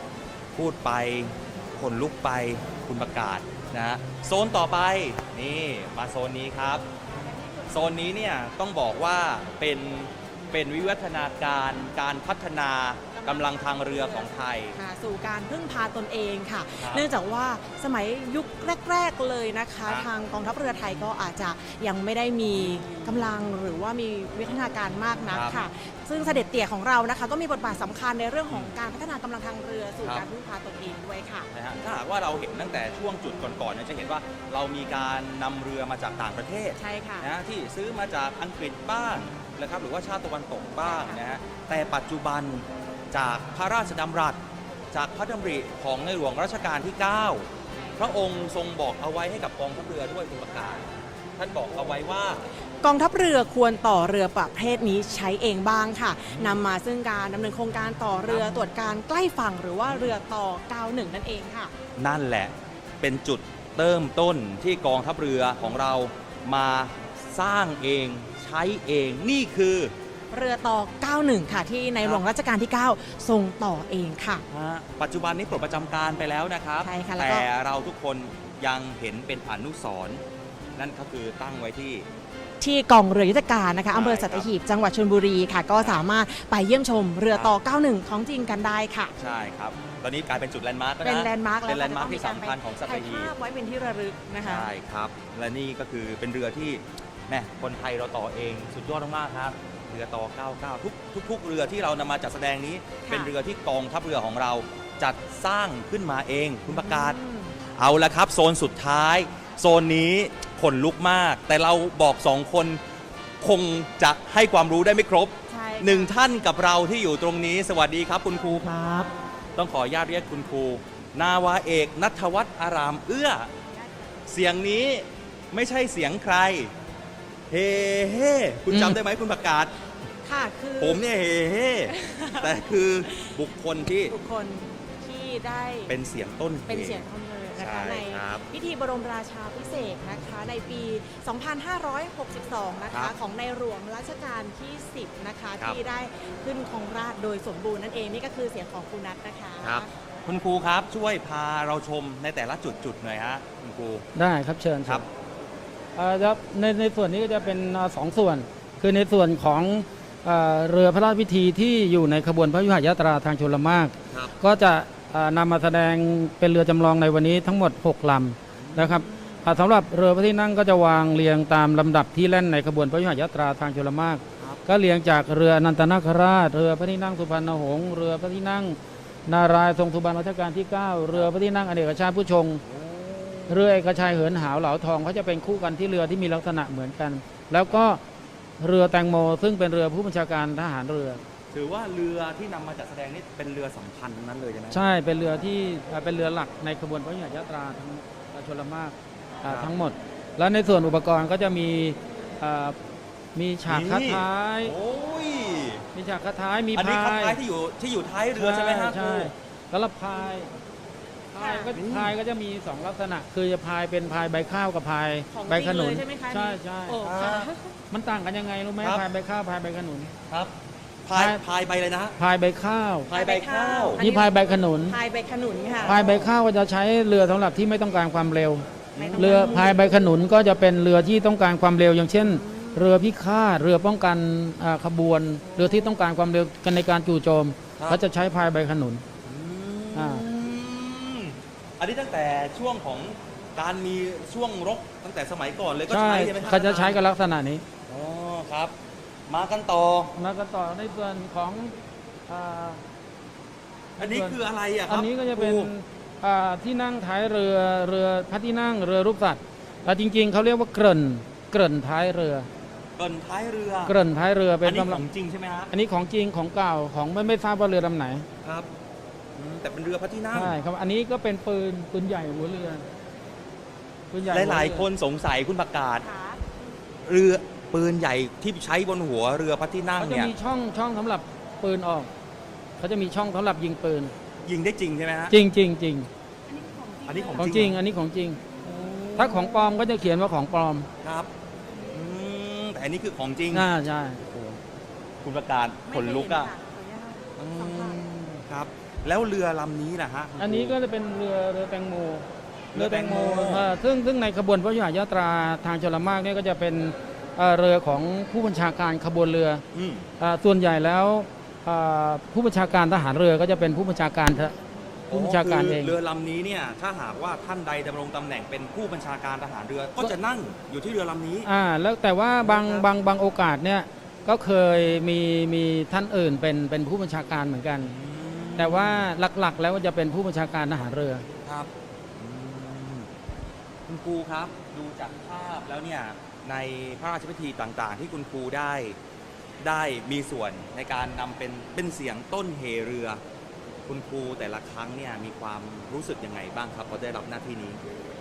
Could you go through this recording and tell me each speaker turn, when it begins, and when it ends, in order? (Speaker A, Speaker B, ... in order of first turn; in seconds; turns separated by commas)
Speaker A: 0.5-6.8, Speaker B: 7.2-8.0, Speaker A: 7.7-14.8, Speaker B: 13.2-31.5, Speaker A: 16.8-17.1, Speaker A: 22.6-23.2, Speaker A: 25.3-25.6, Speaker A: 31.5-44.4, Speaker B: 36.8-37.3, Speaker B: 40.8-41.2, Speaker A: 44.9-52.4, Speaker B: 52.8-61.7, Speaker A: 56.3-56.6, Speaker A: 62.0-69.9, Speaker B: 70.3-74.4, Speaker A: 74.5-80.2, Speaker B: 76.8-77.5, Speaker A: 80.8-82.1, Speaker B: 82.6-89.1, Speaker A: 83.9-84.5, Speaker A: 85.8-86.0, Speaker A: 87.3-87.5, Speaker A: 89.2-93.3, Speaker B: 91.0-94.7, Speaker A: 94.4-107.2, Speaker B: 103.0-103.3, Speaker B: 106.7-107.5, Speaker A: 107.8-112.8, Speaker A: 113.4-123.5, Speaker B: 115.5-116.1, Speaker A: 124.3-126.7, Speaker A: 127.5-129.7, Speaker C: 128.7-129.0, Speaker B: 130.2-131.0, Speaker A: 130.8-134.1, Speaker B: 131.9-133.4, Speaker B: 134.1-135.9, Speaker A: 135.9-138.5, Speaker B: 136.7-149.9, Speaker A: 149.6-154.1, Speaker C: 154.1-155.1, Speaker C: 155.9-182.6, Speaker A: 164.1-164.4, Speaker A: 168.5-169.5, Speaker A: 174.4-174.7, Speaker A: 182.6-183.8, Speaker C: 183.5-188.0, Speaker C: 188.6-191.2, Speaker A: 191.5-194.9, Speaker C: 194.7-202.8, Speaker A: 199.4-199.8, Speaker C: 203.3-204.7, Speaker A: 203.7-205.9, Speaker C: 205.9-207.4, Speaker A: 206.7-209.3, Speaker C: 208.3-210.5, Speaker C: 211.3-217.0, Speaker B: 211.3-211.7, Speaker A: 211.7-212.2, Speaker B: 215.3-217.7, Speaker A: 217.0-217.5, Speaker C: 217.9-220.1, Speaker A: 218.8-219.1, Speaker A: 220.3-220.5, Speaker A: 221.0-222.2, Speaker C: 221.1-221.4, Speaker C: 222.2-223.1, Speaker A: 223.1-224.0, Speaker B: 223.1-226.2, Speaker C: 224.0-225.0, Speaker C: 225.8-239.0, Speaker B: 228.9-229.9, Speaker A: 229.0-229.5, Speaker B: 232.2-232.9, Speaker A: 237.8-238.0, Speaker A: 239.2-247.0, Speaker C: 239.9-240.2, Speaker C: 245.9-247.6, Speaker A: 247.9-248.7, Speaker A: 249.3-250.1, Speaker C: 250.2-251.7, Speaker C: 252.3-252.8, Speaker A: 254.0-255.7, Speaker C: 254.0-262.5, Speaker A: 262.9-263.9, Speaker C: 263.9-265.0, Speaker A: 264.6-265.7, Speaker C: 265.7-268.3, Speaker A: 268.4-268.7, Speaker A: 269.4-270.6, Speaker C: 270.3-272.8, Speaker C: 274.1-274.9, Speaker A: 274.2-276.1, Speaker B: 276.0-276.5, Speaker A: 277.0-280.3, Speaker C: 280.0-282.1, Speaker C: 282.8-284.1, Speaker A: 284.4-285.4, Speaker C: 285.3-286.1, Speaker B: 286.5-287.6, Speaker A: 287.1-287.8, Speaker C: 287.3-288.4, Speaker A: 288.6-289.9, Speaker C: 289.1-290.9, Speaker A: 291.0-291.3, Speaker A: 291.9-293.7, Speaker C: 293.5-294.6, Speaker A: 295.2-296.5, Speaker B: 295.9-298.0, Speaker A: 297.4-300.8, Speaker C: 300.4-309.6, Speaker A: 302.7-303.7, Speaker A: 309.7-310.1, Speaker C: 310.2-314.5, Speaker A: 315.1-321.5, Speaker C: 315.1-315.9, Speaker C: 321.4-327.9, Speaker A: 322.4-322.9, Speaker A: 327.8-329.1, Speaker C: 328.6-331.2, Speaker A: 331.4-333.1, Speaker A: 333.9-339.0, Speaker A: 339.6-343.2, Speaker A: 343.9-347.8